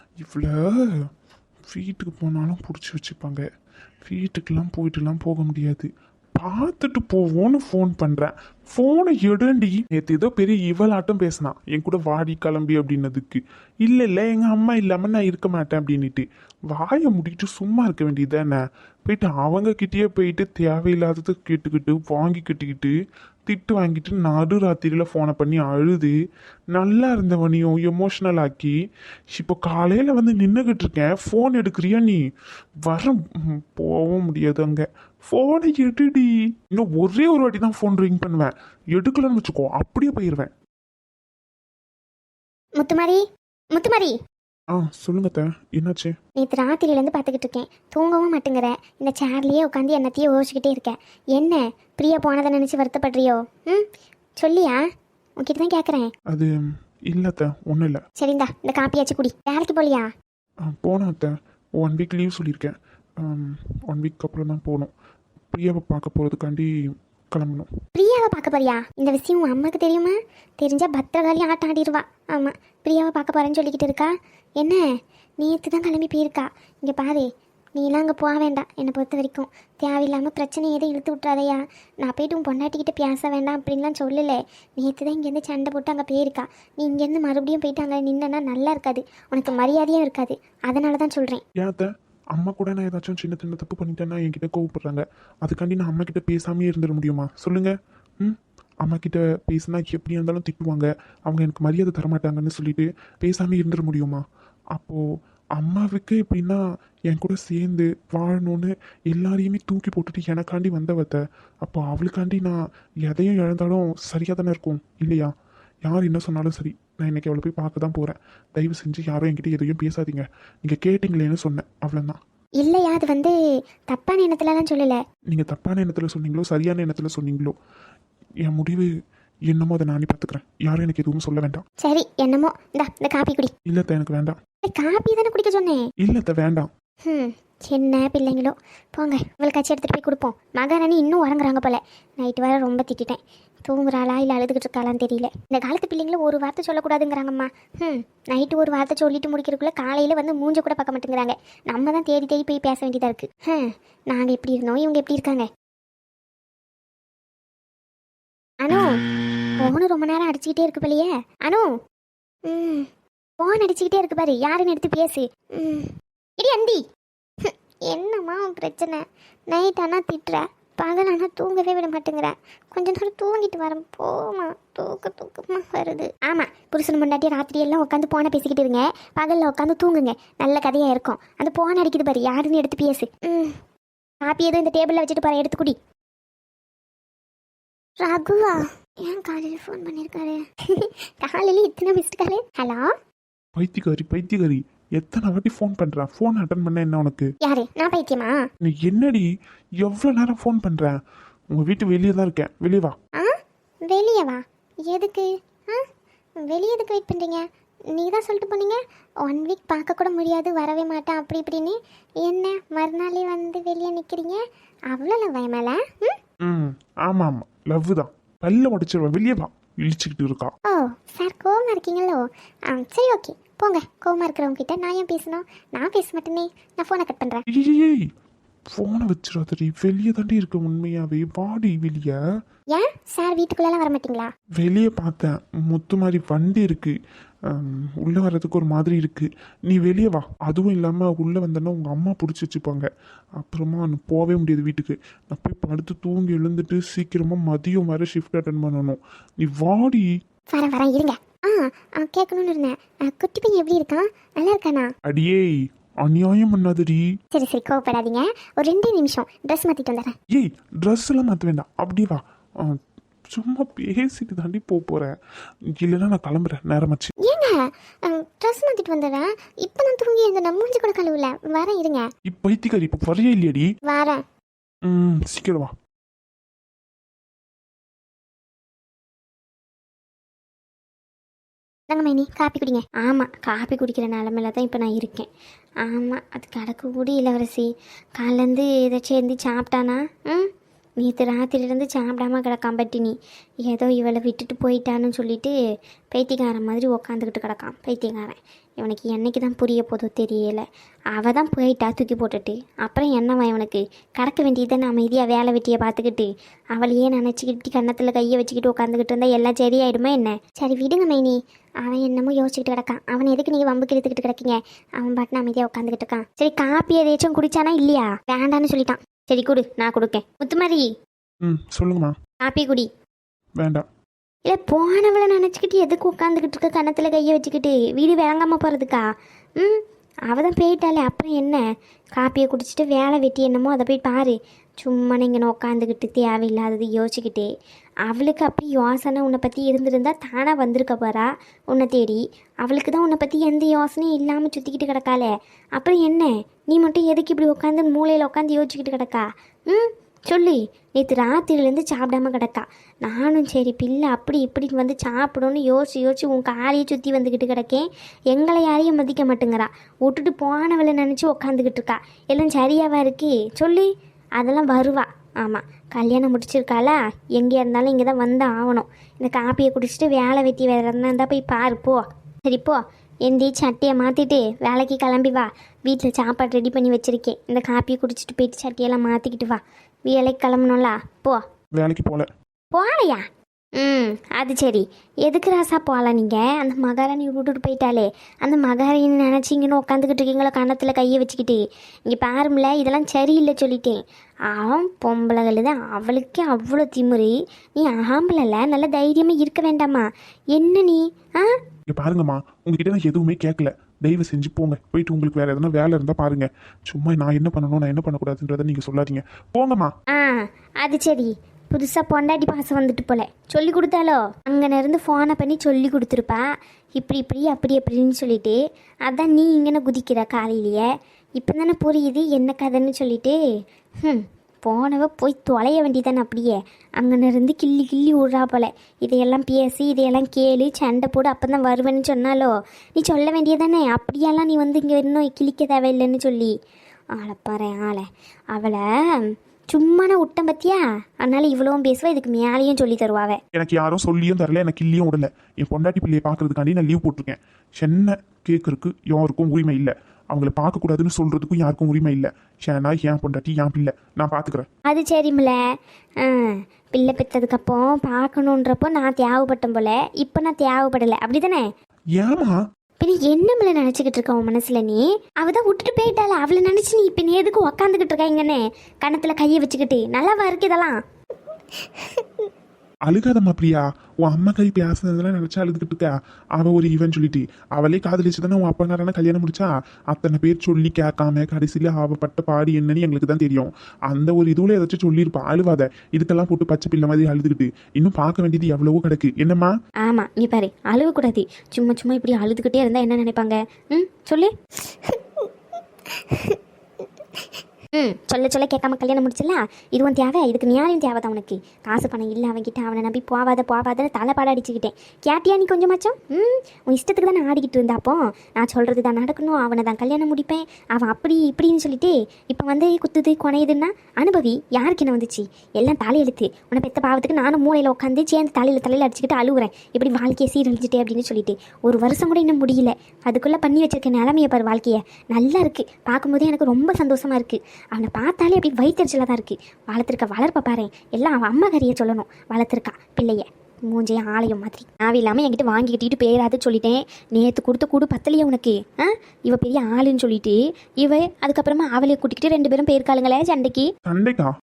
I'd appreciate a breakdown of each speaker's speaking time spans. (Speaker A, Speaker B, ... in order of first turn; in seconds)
Speaker A: 0.2-0.9, 1.7-3.4, 4.0-22.9, 23.5-26.1, 26.7-28.7, 29.3-32.2, 32.9-40.5, 44.7-46.1, 57.1-58.0, 60.6-64.9, 65.5-66.7, 67.3-67.7, 91.6-104.2, 104.7-105.0, 105.5-115.3, 115.8-122.2, 125.3-127.5, 128.4-128.9, 129.5-131.6, 133.7-134.4, 136.0-136.7, 193.6-197.3, 198.6-199.2, 199.8-201.0, 201.5-202.9, 216.5-220.5, 227.5-228.0, 228.7-232.2, 234.6-236.9, 237.5-242.9, 243.4-250.1, 255.1-255.5, 256.0-257.0, 260.3-262.8, 263.3-265.1, 265.8-267.1, 272.3-273.6, 274.9-275.7, 321.4-322.1, 323.6-323.8, 381.8-382.3, 401.9-409.9, 443.5-454.6, 462.2-462.6, 473.1-489.7, 544.1-544.5
Speaker B: 42.8-43.2, 43.7-44.1, 46.4-53.8, 54.4-54.8, 55.4-56.1, 58.2-60.1, 68.0-74.8, 75.4-91.4, 122.6-123.3, 123.9-125.0, 131.8-133.5, 134.6-135.8, 137.0-146.7, 147.2-152.3, 153.4-155.3, 158.6-158.9, 159.6-161.7, 162.4-162.9, 163.4-166.6, 167.4-181.4, 183.2-183.6, 188.0-192.9, 197.4-198.3, 203.9-204.4, 204.9-205.8, 206.5-207.4, 208.0-214.4, 214.9-216.1, 220.7-227.4, 232.7-234.3, 250.5-254.9, 257.3-260.1, 267.2-272.1, 273.9-274.2, 281.9-282.8, 310.6-314.5, 315.0-316.2, 318.3-319.0
Speaker C: 146.6-147.3, 152.2-153.3, 166.5-166.8, 181.2-183.1, 184.2-185.7, 283.0-285.3, 285.8-290.5, 291.0-295.5, 296.1-310.4, 312.2-314.5, 315.4-318.2, 319.3-320.9, 322.4-322.9, 324.4-329.0, 329.6-331.6, 332.1-337.5, 338.1-381.4, 382.7-383.2, 383.8-394.0, 394.5-401.5, 410.1-416.4, 416.9-420.8, 421.4-423.4, 424.0-436.5, 437.1-443.4, 454.9-455.6, 456.2-461.6, 463.0-471.0, 490.0-494.5, 497.9-543.9